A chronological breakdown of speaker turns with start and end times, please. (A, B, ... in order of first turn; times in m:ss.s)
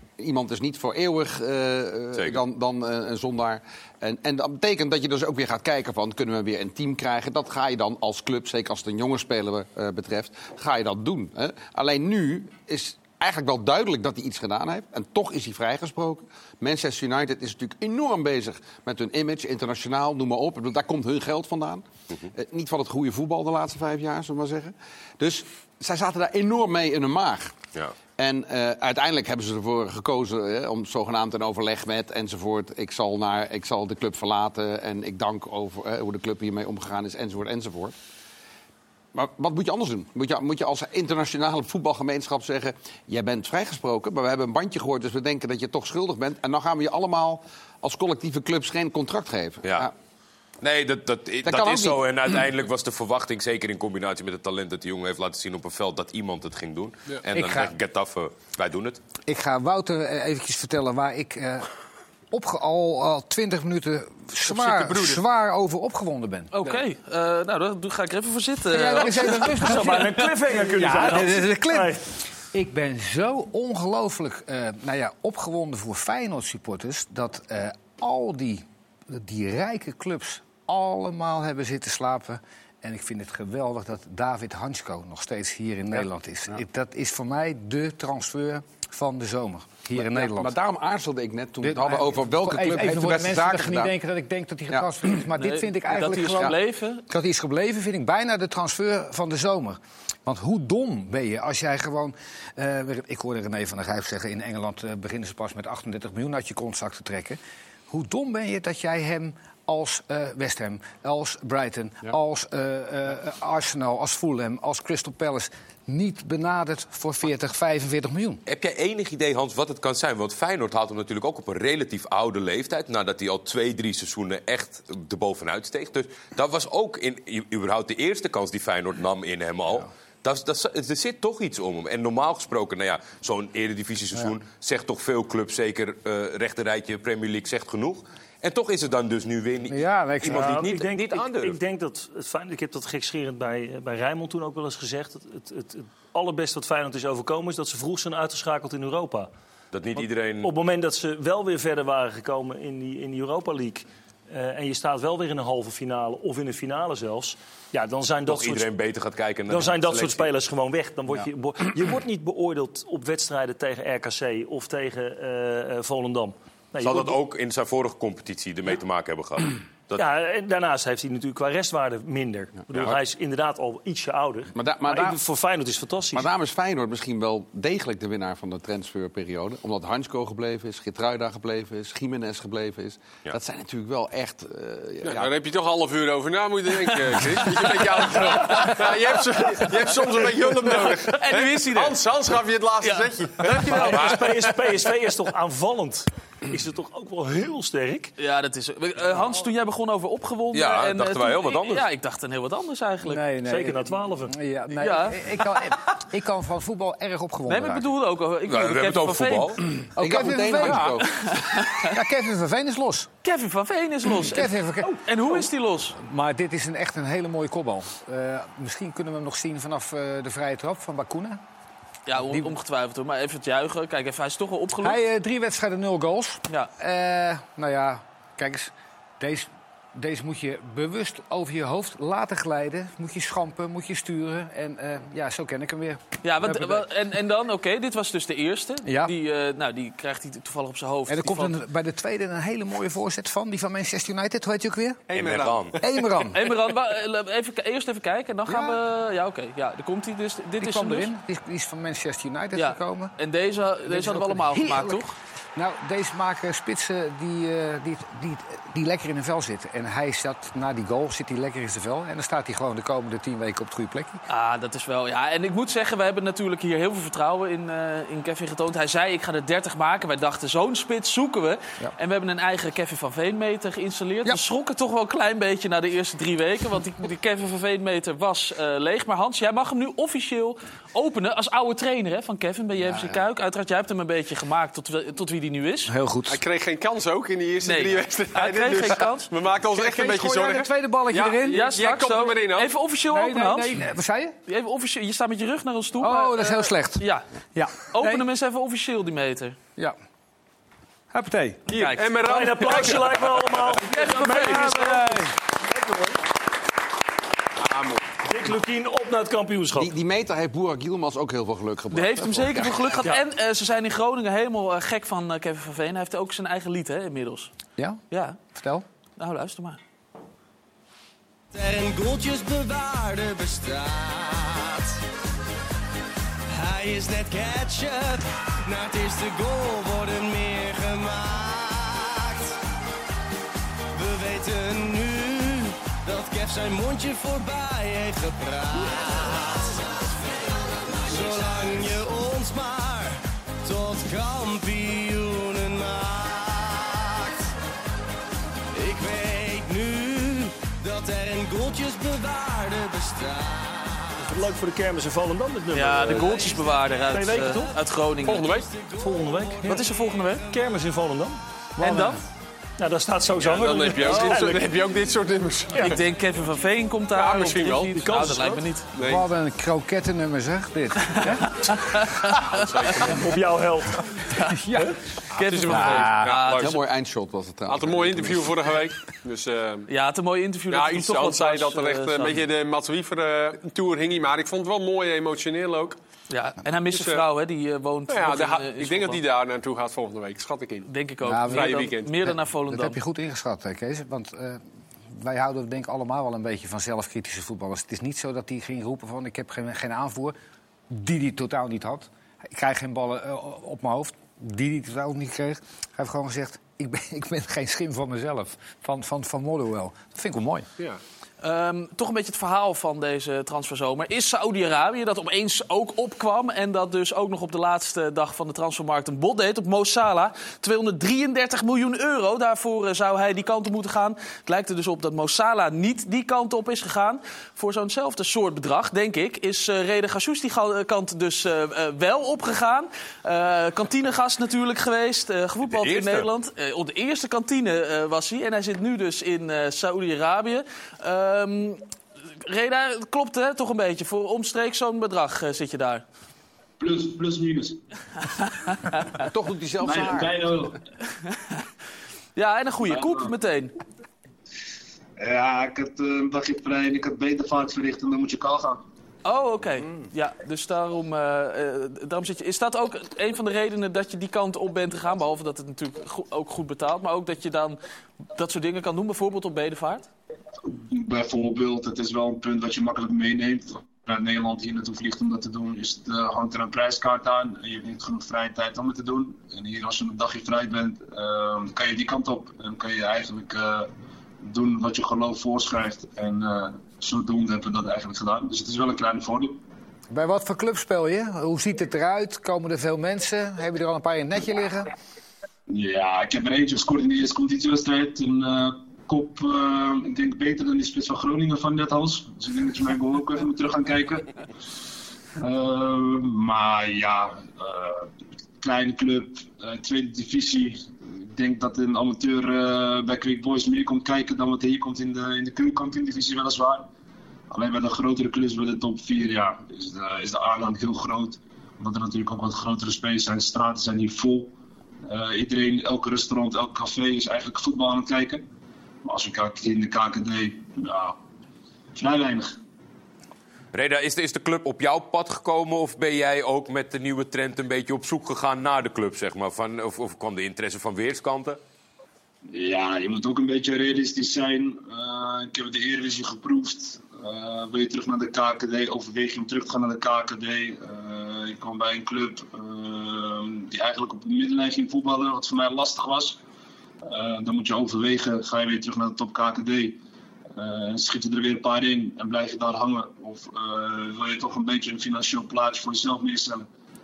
0:00.2-0:27.6 A
0:02.2-0:02.4 B
0:28.2-0:38.0 A
0:39.1-0:49.9 A
0:49.6-0:49.9 B
0:50.6-0:59.0 B
0:51.4-0:52.0 A
0:57.3-0:57.7 C
0:59.2-1:01.7 C
1:02.3-1:06.5 C
1:04.7-1:05.0 D
1:06.5-1:09.9 E
1:08.7-1:11.9 C
1:09.6-1:12.0 F
1:12.5-1:30.5 C
1:30.0-1:33.9 A
1:31.6-1:36.6 C
1:35.4-1:37.0 E
1:37.1-1:58.4 C
1:58.4-2:21.6 B
2:19.7-2:20.6 C
2:20.3-2:29.3 F
2:29.7-2:30.5 B
2:30.0-2:38.7 F
2:38.2-2:40.3 B
2:39.5-2:47.2 F
2:46.8-2:50.0 B
2:50.0-2:56.2 F
2:54.5-2:55.2 A
2:56.1-3:05.3 A
3:05.0-3:14.2 D
3:10.4-3:12.0 E
3:12.8-3:14.0 E
3:13.7-3:18.1 F
3:18.2-3:23.3 E
3:20.5-3:21.9 B
3:23.0-3:27.9 C
3:23.4-3:24.3 F
3:24.8-3:25.7 E
3:27.5-3:29.6 E
3:28.5-3:29.6 B
3:30.0-3:31.1 A
3:30.0-3:31.0 C
3:31.1-3:32.0 E
3:31.8-3:33.1 C
3:33.2-3:36.0 E
3:34.1-3:41.4 C
3:42.1-3:45.0 E
3:42.2-3:42.5 C
3:44.8-3:56.8 C
3:56.2-4:01.5 E
3:58.8-3:59.1 C
4:01.1-4:05.0 C
4:05.1-4:05.7 D
4:05.1-4:05.8 B
4:05.8-4:06.5 C
4:06.3-4:11.1 E
4:08.5-4:08.8 C
4:10.6-4:13.1 C
4:12.5-4:15.2 E
4:13.9-4:15.0 C
4:15.6-4:24.2 C
4:24.3-4:45.9 E
4:42.8-4:43.2 C
4:45.9-4:46.4 C
4:46.3-4:52.7 D
4:47.6-4:49.3 E
4:48.5-4:48.9 C
4:49.6-4:51.7 C
4:51.5-4:53.8 E
4:53.1-4:54.3 C
4:54.5-4:57.2 E
4:56.0-4:57.0 C
4:57.5-4:58.2 C
4:57.8-4:59.6 E
5:01.1-5:01.6 C
5:01.7-5:03.4 D
5:01.7-5:03.1 E
5:02.3-5:04.8 F
5:03.9-5:05.3 E
5:03.9-5:05.3 C
5:07.6-5:08.0 D
5:08.2-5:09.9 F
5:09.7-5:13.1 A
5:11.9-5:17.5 E
5:17.8-5:18.8 C
5:18.1-5:18.4 E
5:19.2-5:19.8 E
5:21.5-5:24.9 G
5:26.5-5:32.4 G
5:33.9-5:47.4 G
5:48.7-5:54.4 G
5:54.2-5:56.6 F
5:55.7-5:58.5 E
5:56.0-6:00.9 G
5:57.1-5:57.7 F
5:58.2-5:58.7 D
5:59.0-5:59.9 F
5:59.6-6:00.5 E
6:00.4-6:01.4 F
6:01.8-6:02.2 C
6:01.8-6:02.2 E
6:02.8-6:04.8 F
6:03.4-6:06.0 D
6:04.0-6:04.4 E
6:05.8-6:08.9 E
6:06.0-6:06.9 G
6:07.1-6:08.2 D
6:07.9-6:08.7 F
6:08.9-6:09.2 D
6:09.0-6:11.5 C
6:11.1-6:12.7 E
6:12.5-6:13.2 D
6:13.2-6:14.2 F
6:14.3-6:14.7 E
6:14.5-6:15.0 C
6:15.3-6:16.8 E
6:15.4-6:16.6 D
6:15.7-6:18.6 A
6:17.7-6:19.9 D
6:19.9-6:22.4 E
6:20.7-6:26.0 D
6:26.3-6:29.2 E
6:26.9-6:27.2 D
6:28.1-6:30.9 D
6:30.9-6:33.0 E
6:31.2-6:40.3 C
6:31.5-6:32.1 D
6:40.9-6:50.7 C
6:51.4-7:21.8 E
7:15.6-7:16.3 B
7:22.4-7:26.0 E
7:26.8-7:27.8 H
7:29.3-7:30.3 A
7:29.8-7:30.8 H
7:32.4-7:33.8 E
7:32.8-7:33.3 H
7:35.2-7:38.8 H
7:39.2-7:47.8 E
7:48.3-7:50.1 E
7:50.7-8:03.9 H
8:04.4-8:09.6 H
8:10.1-8:14.9 C
8:15.7-8:24.3 H
8:25.4-8:28.1 H
8:28.6-8:36.9 H
8:37.5-8:44.5 H
8:45.0-8:48.4 H
8:49.0-8:51.2 H
8:51.9-8:52.6 H
8:53.7-9:01.6 B
9:02.5-9:16.4 H
9:17.0-9:20.0 H
9:20.5-9:26.6 H